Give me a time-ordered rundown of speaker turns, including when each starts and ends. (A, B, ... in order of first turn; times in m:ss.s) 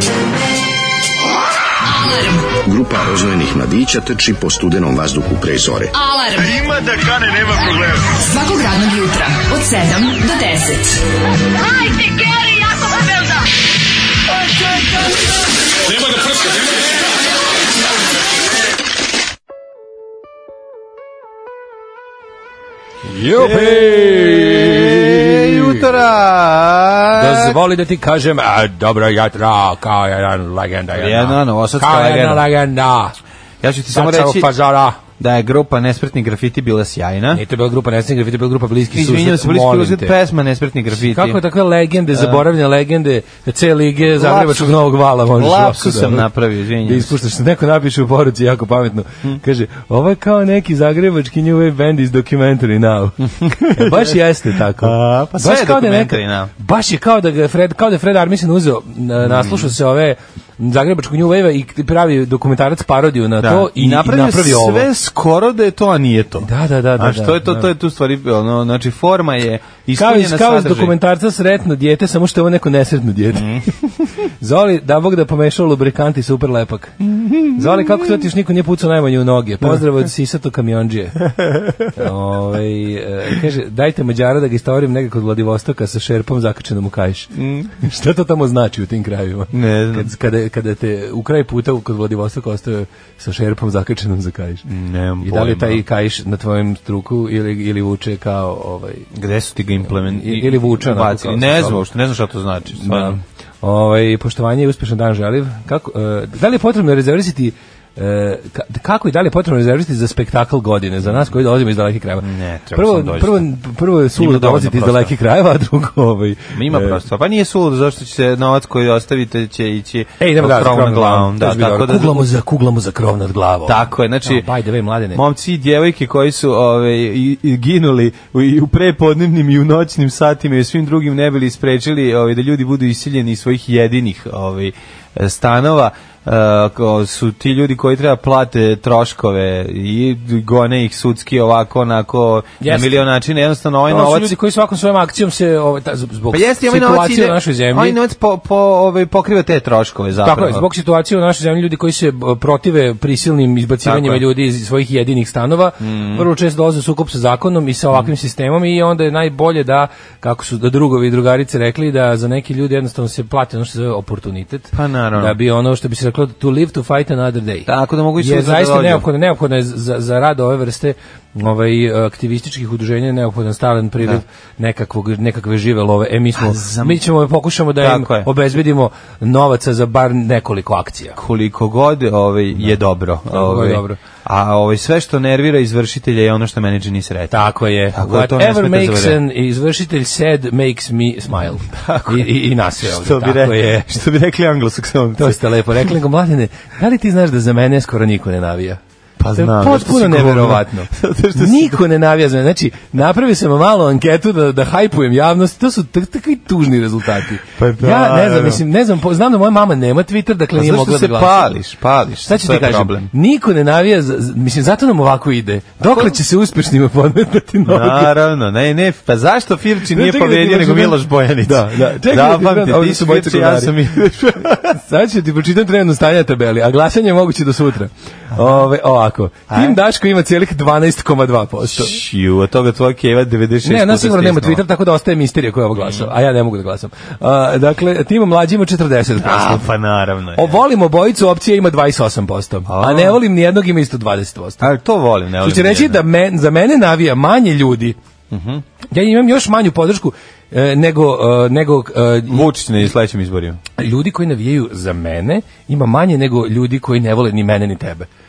0:01.8-0:02.5 A
0:02.6-0:05.9 B
0:05.9-0:06.8 A
0:07.4-0:13.4 A
0:23.0-0:25.8 C
0:23.3-0:27.5 D
0:27.1-0:33.2 C
0:30.9-0:32.5 D
0:33.6-0:34.5 D
0:33.9-0:35.0 C
0:35.2-0:37.4 D
0:37.3-0:40.1 C
0:38.9-0:41.4 D
0:40.9-0:46.3 C
0:42.1-0:42.4 D
0:44.0-0:47.2 D
0:46.8-1:04.8 C
0:53.4-0:56.5 D
0:59.2-0:59.7 D
1:03.4-1:10.9 D
1:06.4-1:07.7 C
1:10.0-1:13.6 C
1:13.3-1:13.7 D
1:14.4-1:17.0 C
1:17.0-1:18.2 D
1:17.5-1:21.3 C
1:21.4-1:21.9 D
1:21.9-1:34.6 C
1:27.3-1:27.7 D
1:29.5-1:30.1 D
1:34.6-1:35.8 D
1:35.2-1:39.1 C
1:39.1-1:43.2 D
1:39.9-1:41.8 C
1:42.7-1:57.0 C
1:52.2-1:53.4 D
1:54.2-1:55.1 D
1:56.5-2:02.3 D
2:00.2-2:05.2 C
2:03.6-2:04.5 D
2:05.1-2:24.3 D
2:22.6-2:23.0 C
2:23.9-2:28.0 C
2:26.3-2:30.6 D
2:30.2-3:01.2 C
2:33.8-2:34.2 D
2:35.8-2:36.3 D
2:44.7-2:45.4 D
2:47.7-2:49.0 D
2:56.4-2:57.0 D
2:57.8-2:58.3 D
3:01.1-3:09.2 D
3:03.3-3:04.0 C
3:07.3-3:14.0 C
3:11.6-3:15.9 D
3:15.2-3:18.8 C
3:19.2-3:21.8 D
3:19.3-3:31.5 C
3:27.6-3:28.6 D
3:30.5-3:33.1 D
3:32.2-3:38.1 C
3:35.8-3:36.2 D
3:37.7-3:44.6 D
3:39.9-3:52.0 C
3:49.5-3:49.8 D
3:51.7-3:54.6 D
3:53.6-3:59.7 C
3:55.8-3:56.1 D
3:59.2-4:00.6 D
4:00.3-4:04.7 C
4:02.7-4:03.2 D
4:04.6-4:06.0 D
4:05.4-4:07.9 C
4:08.3-4:08.6 D
4:08.9-4:12.5 C
4:12.3-4:13.6 D
4:13.8-4:18.1 C